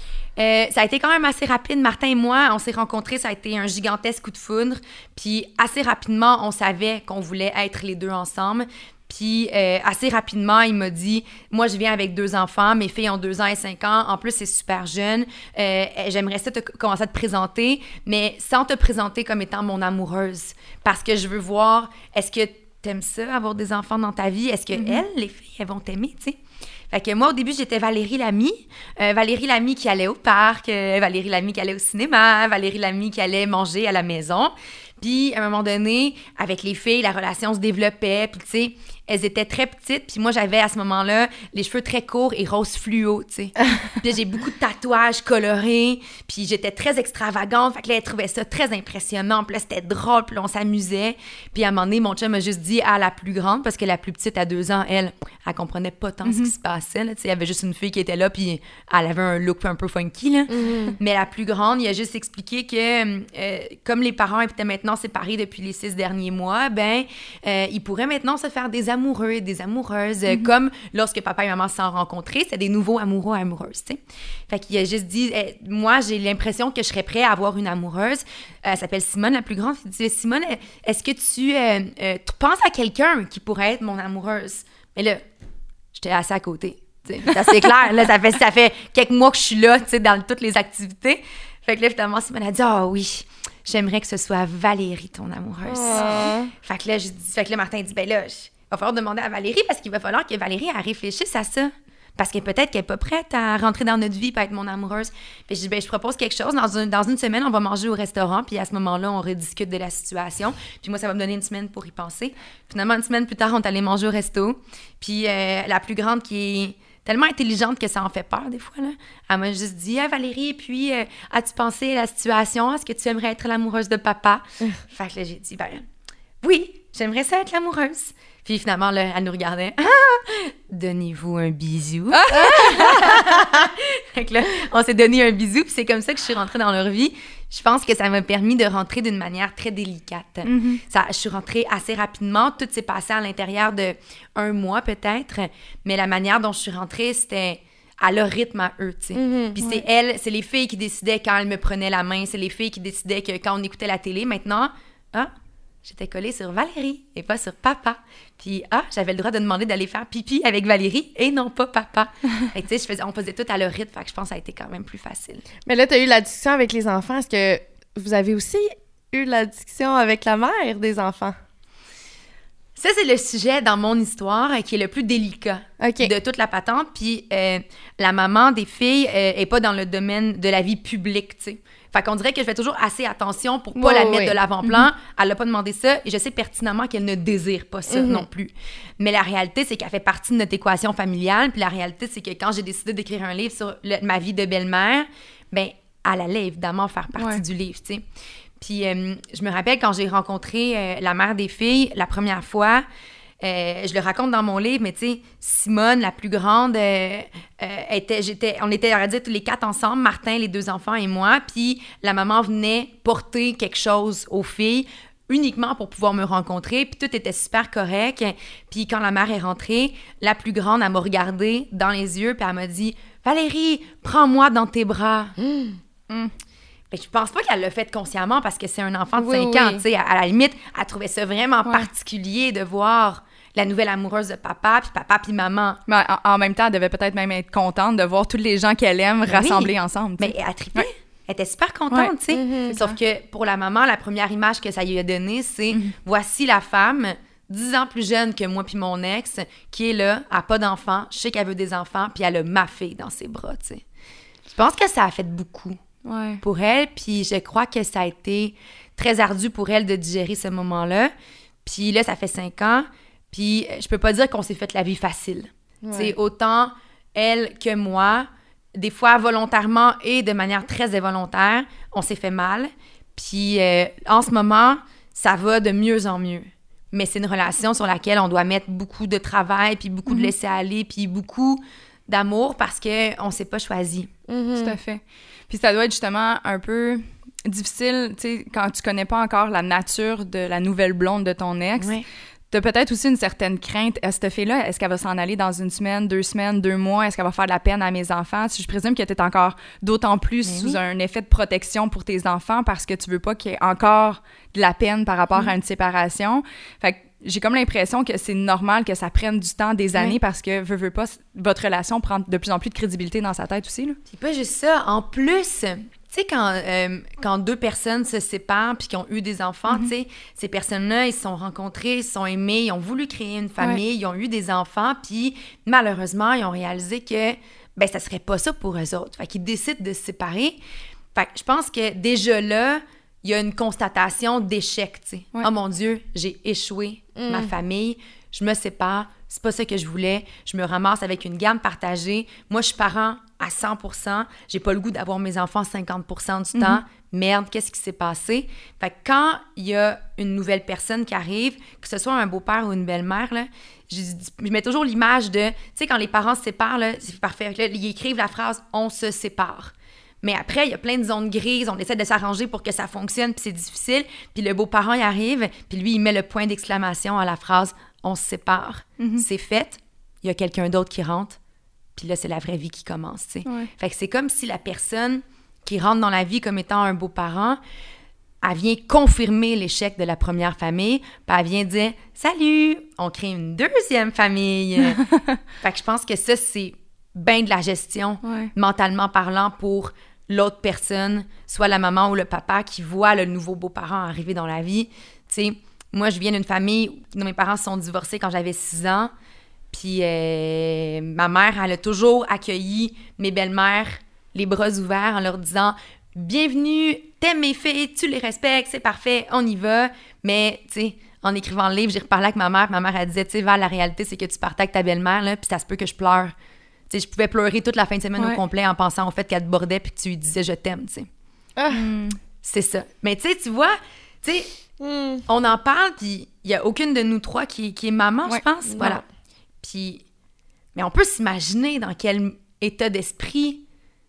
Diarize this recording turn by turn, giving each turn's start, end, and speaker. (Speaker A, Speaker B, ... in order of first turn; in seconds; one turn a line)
Speaker A: 0.4-26.4
Speaker B: 24.8-25.0
Speaker A: 26.9-85.2
Speaker B: 56.2-56.5
Speaker C: 60.5-61.0
Speaker A: 85.9-125.8
Speaker C: 95.7-96.5
Speaker A: 126.4-155.3
Speaker B: 132.1-133.2
Speaker C: 132.5-133.2
Speaker B: 140.4-140.8
Speaker C: 149.2-149.6
Speaker A: 155.8-165.4
Speaker C: 165.7-171.3
Speaker A: 172.8-198.0
Speaker C: 175.8-176.1
Speaker C: 183.8-184.4
Speaker B: 184.6-184.9
Speaker C: 187.9-188.3
Speaker B: 197.2-197.4
Speaker A: 198.6-202.8
Speaker A: 203.4-225.3
Speaker A: 226.9-235.8
Speaker C: 229.2-229.8
Speaker B: 235.9-240.9
Speaker A: 239.3-253.8
Speaker C: 242.3-242.8
Speaker B: 242.7-243.0
Speaker A: 254.5-255.8
Speaker B: 256.1-256.4
Speaker A: 256.4-261.1
Speaker A: 261.6-284.1
Speaker C: 265.8-266.1
Speaker B: 280.1-280.3
Speaker C: 284.3-284.8
Speaker B: 284.6-314.0
Speaker A: 291.8-292.1
Speaker A: 300.5-300.8
Speaker A: 314.1-330.6
Speaker A: 331.1-371.4
Speaker C: 337.2-337.5
Speaker B: 346.6-346.8
Speaker B: 369.0-369.3
Speaker A: 372.0-377.6
Speaker A: 378.4-385.0
Speaker A: 385.6-399.1
Speaker B: 388.2-388.5
Speaker A: 399.7-416.3
Speaker A: 416.9-421.1
Speaker C: 421.6-421.8
Speaker B: 421.7-422.2
Speaker A: 422.4-424.5
Speaker C: 424.8-425.2
Speaker A: 425.3-429.0
Speaker B: 428.3-429.0
Speaker C: 428.7-429.0
Speaker A: 429.6-430.0
Speaker A: 430.8-433.6